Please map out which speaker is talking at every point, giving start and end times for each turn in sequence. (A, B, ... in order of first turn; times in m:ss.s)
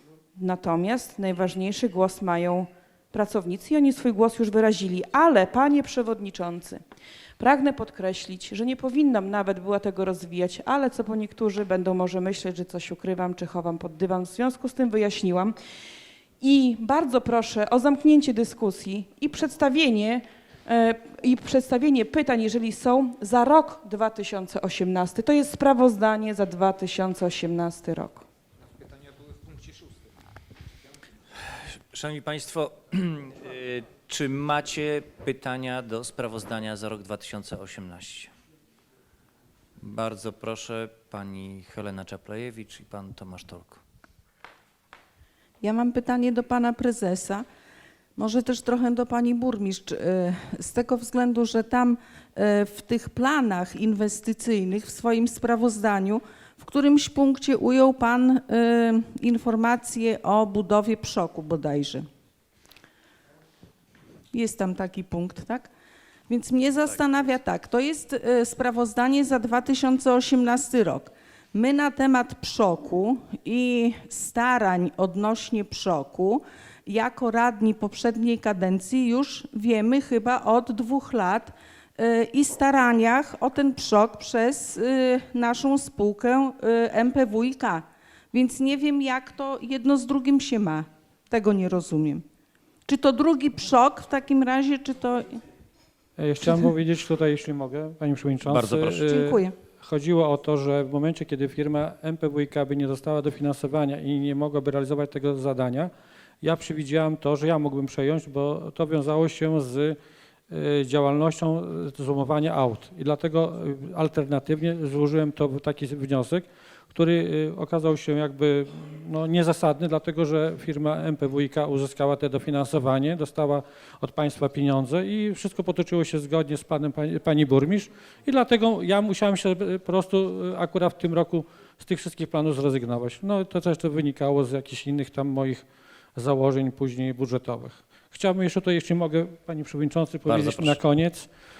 0:00.4-0:06.8 A
0:07.4-0:15.6 A
0:16.4-0:28.2 A
0:31.4-0:38.3 B
0:39.8-0:43.8 B
0:45.6-0:47.5 C
0:48.2-1:02.1 C
1:04.3-1:05.7 C
1:06.3-1:32.2 C
1:32.9-1:35.4 C
1:36.2-1:45.9 D
1:36.4-1:36.7 C
1:38.5-1:39.1 B
1:39.1-1:39.6 C
1:46.4-1:50.0 D
1:50.5-2:15.6 D
2:16.2-2:21.3 D
2:20.3-2:20.8 B